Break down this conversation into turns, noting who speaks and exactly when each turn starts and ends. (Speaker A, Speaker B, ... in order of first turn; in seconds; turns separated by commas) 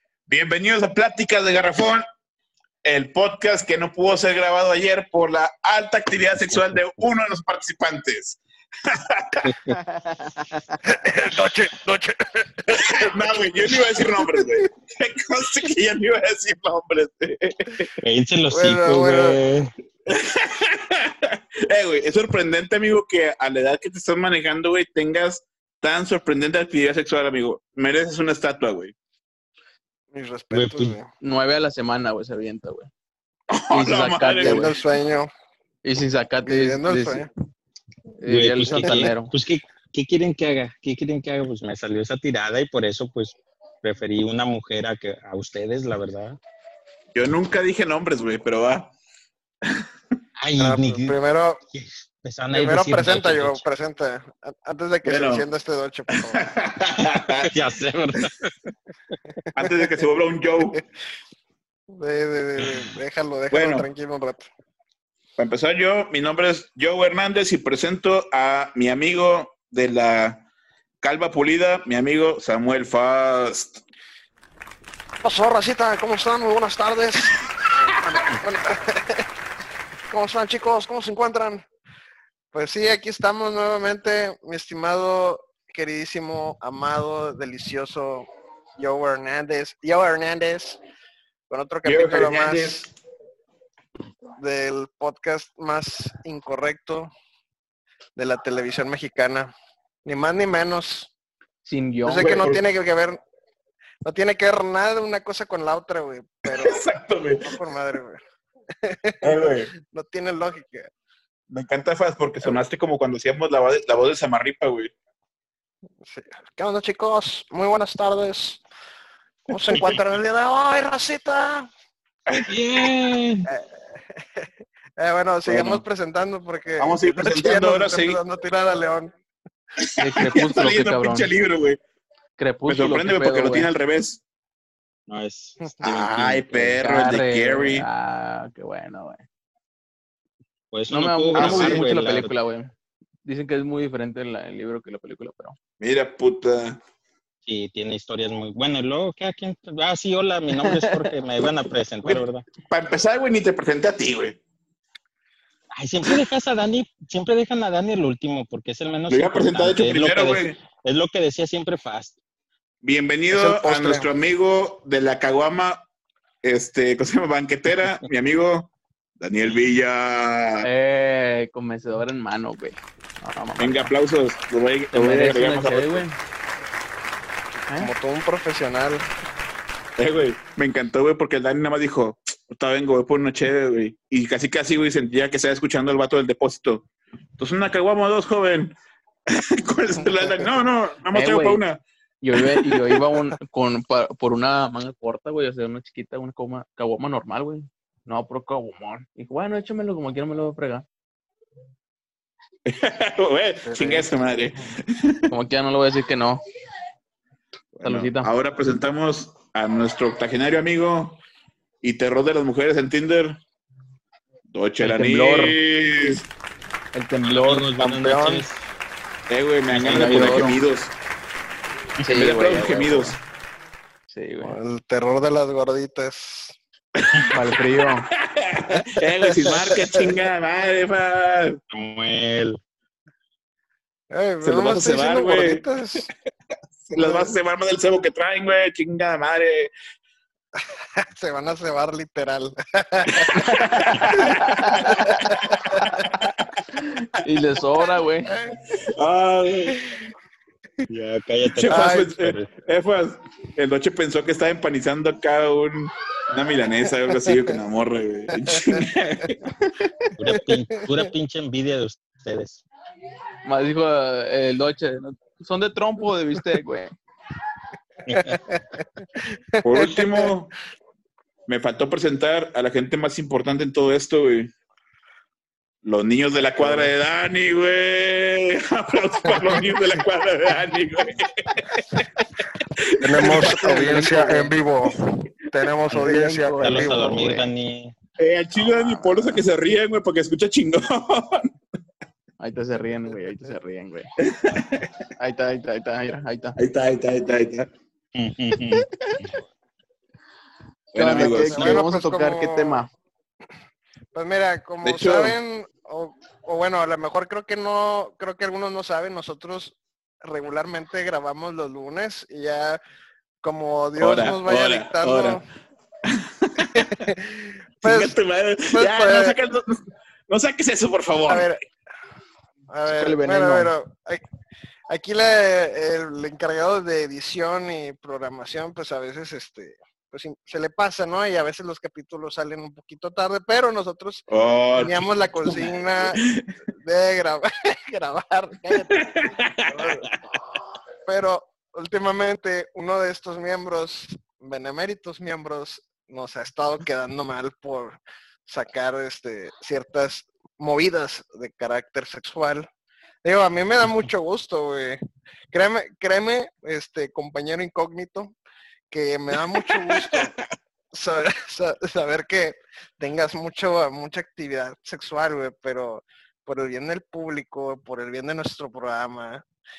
Speaker A: 0.3-2.1, Speaker A: 2.8-9.6, Speaker B: 9.4-9.8, Speaker C: 9.8-10.8, Speaker D: 10.8-14.6, Speaker A: 12.7-17.9, Speaker B: 18.0-19.7, Speaker D: 18.5-19.4, Speaker A: 20.1-28.9, Speaker D: 30.1-31.1, Speaker B: 30.5-31.0, Speaker C: 31.2-32.9, Speaker A: 33.5-34.8, Speaker C: 33.7-34.7, Speaker D: 34.4-35.3, Speaker C: 35.8-37.3, Speaker D: 36.4-37.3, Speaker C: 38.2-39.3, Speaker B: 38.3-46.4, Speaker A: 47.1-48.9, Speaker B: 50.4-51.2, Speaker D: 50.6-51.6, Speaker B: 51.7-53.6, Speaker D: 52.5-56.5, Speaker A: 55.0-55.5, Speaker A: 56.2-57.5, Speaker B: 57.0-58.5, Speaker A: 59.5-60.8, Speaker D: 59.6-59.9, Speaker D: 61.9-64.5, Speaker A: 63.5-63.9, Speaker A: 65.4-70.5, Speaker A: 71.0-73.8, Speaker D: 75.2-79.3, Speaker D: 80.1-81.7, Speaker D: 82.5-90.8, Speaker D: 91.5-92.9, Speaker A: 91.8-92.9, Speaker D: 94.4-97.1, Speaker D: 98.2-99.5, Speaker D: 100.0-101.1, Speaker C: 101.6-102.5, Speaker D: 102.0-103.2, Speaker A: 102.2-102.6, Speaker D: 104.0-106.8, Speaker A: 106.5-107.6, Speaker D: 107.4-108.2, Speaker D: 108.8-110.9, Speaker A: 109.2-109.7, Speaker A: 111.5-114.9, Speaker D: 116.0-118.6, Speaker D: 119.5-121.7, Speaker A: 122.3-122.5, Speaker B: 122.5-123.5, Speaker D: 123.5-129.1, Speaker A: 125.5-125.8, Speaker A: 126.8-128.2, Speaker A: 129.8-131.8, Speaker C: 130.0-131.3, Speaker C: 132.4-133.7, Speaker A: 132.7-134.2, Speaker B: 135.1-136.8, Speaker A: 135.8-137.9, Speaker C: 136.8-139.2, Speaker B: 140.7-142.3, Speaker C: 140.9-142.7, Speaker A: 141.3-141.8, Speaker C: 143.2-145.6, Speaker A: 145.8-146.8, Speaker B: 147.5-152.4, Speaker C: 150.6-151.1, Speaker A: 152.1-154.4, Speaker B: 155.7-162.2, Speaker A: 159.1-160.6, Speaker A: 162.8-165.8, Speaker D: 163.3-164.1, Speaker A: 166.4-170.7, Speaker C: 170.6-173.9, Speaker A: 173.6-176.0, Speaker C: 174.9-176.2, Speaker D: 177.8-179.1, Speaker A: 180.0-191.8, Speaker D: 190.0-190.5, Speaker C: 191.1-191.6, Speaker C: 192.2-200.9, Speaker A: 192.4-192.9, Speaker A: 202.7-205.3, Speaker D: 203.7-204.1, Speaker C: 205.3-206.4, Speaker A: 207.8-211.2, Speaker C: 207.8-208.3, Speaker A: 211.8-213.4, Speaker A: 214.5-216.2, Speaker C: 214.8-215.6, Speaker C: 216.9-217.7, Speaker B: 217.2-218.6, Speaker D: 217.8-218.5, Speaker A: 219.3-220.9, Speaker B: 219.8-220.6, Speaker C: 219.8-220.6, Speaker C: 222.0-223.2, Speaker A: 222.1-223.2, Speaker C: 224.1-224.6, Speaker D: 224.4-226.6, Speaker A: 227.0-227.6, Speaker C: 227.3-228.1, Speaker A: 228.1-231.6, Speaker D: 228.8-230.2, Speaker B: 231.7-232.6, Speaker D: 234.1-236.1, Speaker A: 234.4-235.6, Speaker A: 236.8-239.7, Speaker D: 237.0-237.3, Speaker D: 240.6-243.6, Speaker A: 243.2-246.6, Speaker D: 244.2-246.0, Speaker C: 244.5-244.9, Speaker C: 246.7-248.4, Speaker D: 248.3-248.6, Speaker A: 248.8-249.8, Speaker D: 249.7-250.0, Speaker B: 250.9-252.5, Speaker A: 251.6-259.5, Speaker D: 251.7-252.1, Speaker D: 258.4-258.8, Speaker C: 259.6-260.0, Speaker B: 260.2-262.6, Speaker D: 260.3-261.1, Speaker C: 263.4-266.9, Speaker B: 268.1-268.4, Speaker D: 268.1-270.3, Speaker A: 269.6-270.5, Speaker A: 271.5-274.5, Speaker A: 275.8-282.0, Speaker D: 276.6-276.9, Speaker D: 279.3-279.6, Speaker A: 282.8-284.5, Speaker D: 283.0-287.2, Speaker C: 285.9-287.5, Speaker B: 286.6-287.9, Speaker A: 288.2-291.5, Speaker D: 288.9-289.4, Speaker C: 292.4-294.1, Speaker A: 294.2-294.9, Speaker C: 295.2-296.6, Speaker A: 296.6-297.7, Speaker B: 298.1-298.9, Speaker C: 298.7-299.3, Speaker A: 300.9-301.9, Speaker C: 301.0-302.9, Speaker D: 301.2-302.9, Speaker D: 304.1-312.8, Speaker A: 304.8-305.4, Speaker D: 313.4-315.4, Speaker A: 314.0-315.4, Speaker A: 316.1-317.1, Speaker D: 316.7-318.1, Speaker A: 317.8-321.5, Speaker D: 318.7-319.4, Speaker D: 321.3-321.6, Speaker D: 322.7-324.2, Speaker C: 322.9-323.7, Speaker D: 324.9-336.3, Speaker A: 334.3-336.5, Speaker D: 336.8-340.1, Speaker A: 338.9-340.1, Speaker D: 341.1-352.7, Speaker D: 353.2-355.0, Speaker D: 355.5-358.4, Speaker D: 358.9-360.4, Speaker A: 359.6-360.4, Speaker D: 360.9-369.4